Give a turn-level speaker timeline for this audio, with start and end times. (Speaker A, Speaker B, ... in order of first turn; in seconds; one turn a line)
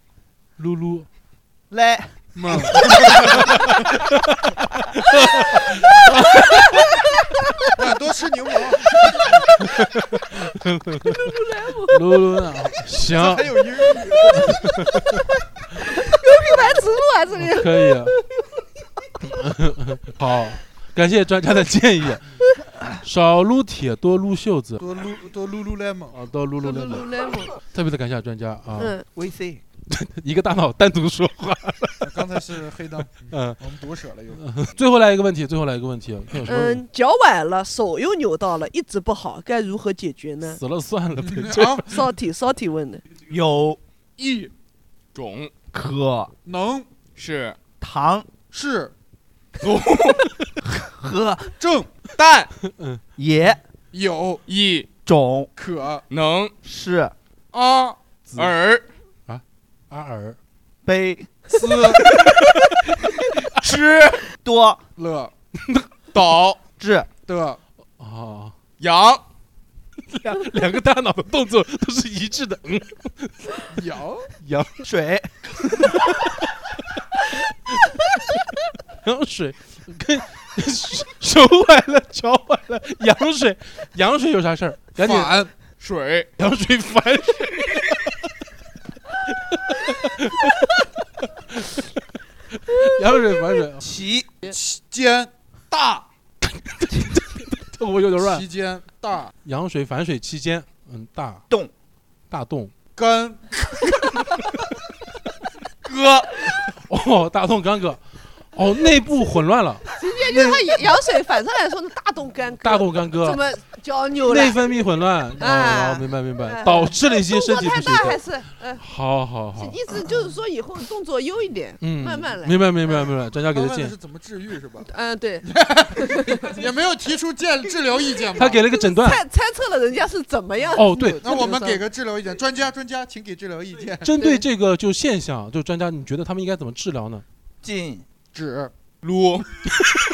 Speaker A: 0.6-1.1
Speaker B: 1.7-2.2
Speaker C: 2.4-3.6
Speaker A: 2.7-7.0
Speaker C: 7.8-9.4
Speaker A: 9.6-11.4
Speaker D: 11.1-12.0
Speaker A: 11.9-13.7
Speaker C: 13.1-14.6
Speaker A: 14.3-15.2
Speaker D: 15.8-18.4
Speaker A: 17.4-18.2
Speaker A: 19.2-22.3
Speaker A: 23.0-24.8
Speaker C: 24.8-26.2
Speaker A: 26.1-28.9
Speaker D: 26.6-27.5
Speaker D: 28.8-29.1
Speaker B: 29.1-29.6
Speaker A: 29.9-32.2
Speaker C: 32.0-34.4
Speaker A: 33.3-33.6
Speaker A: 34.4-36.8
Speaker D: 36.5-40.6
Speaker A: 40.4-42.0
Speaker C: 41.2-41.9
Speaker D: 41.9-43.0
Speaker B: 43.3-43.8
Speaker C: 44.2-44.5
Speaker E: 45.1-45.5
Speaker B: 45.7-46.3
Speaker C: 46.5-46.9
Speaker E: 47.2-47.6
Speaker B: 47.8-48.3
Speaker C: 48.5-48.9
Speaker E: 49.6-50.3
Speaker B: 50.6-51.5
Speaker C: 51.6-51.9
Speaker E: 52.1-52.5
Speaker A: 52.7-53.0
Speaker B: 53.2-53.6
Speaker C: 53.9-54.4
Speaker E: 54.5-54.9
Speaker B: 55.0-55.5
Speaker C: 55.6-56.0
Speaker E: 56.1-56.5
Speaker B: 56.6-57.1
Speaker C: 57.5-58.0
Speaker A: 58.3-58.5
Speaker E: 58.4-58.8
Speaker A: 59.3-60.4
Speaker B: 60.9-61.5
Speaker C: 61.5-62.0
Speaker E: 63.6-64.3
Speaker B: 64.3-64.8
Speaker C: 65.0-65.3
Speaker A: 65.6-65.9
Speaker E: 66.1-66.6
Speaker B: 66.8-67.1
Speaker C: 67.3-67.6
Speaker A: 68.0-68.5
Speaker E: 68.8-69.2
Speaker A: 70.1-73.5
Speaker C: 73.7-74.3
Speaker A: 74.4-74.8
Speaker B: 74.8-75.3
Speaker A: 75.7-76.3
Speaker A: 77.7-78.4
Speaker A: 79.0-85.4
Speaker C: 85.0-85.5
Speaker E: 85.8-86.3
Speaker A: 86.4-88.3
Speaker A: 89.3-93.9
Speaker B: 93.8-94.3
Speaker C: 94.5-95.3
Speaker E: 95.7-96.0
Speaker A: 96.4-98.5
Speaker C: 98.2-99.3
Speaker A: 99.4-101.4
Speaker A: 102.3-102.7
Speaker C: 103.0-103.4
Speaker E: 105.8-106.5
Speaker A: 106.7-108.0
Speaker A: 108.5-110.7
Speaker D: 110.0-114.6
Speaker A: 112.6-113.4
Speaker A: 114.3-118.2
Speaker D: 115.4-118.8
Speaker A: 118.8-119.8
Speaker D: 119.5-122.7
Speaker A: 121.8-124.0
Speaker C: 123.5-124.9
Speaker D: 124.9-126.5
Speaker C: 125.4-128.6
Speaker A: 128.4-129.2
Speaker D: 128.7-131.8
Speaker A: 130.7-131.3
Speaker C: 131.0-134.1
Speaker A: 134.0-137.2
Speaker D: 134.2-134.4
Speaker B: 137.6-138.1
Speaker C: 138.3-138.7
Speaker E: 139.0-139.5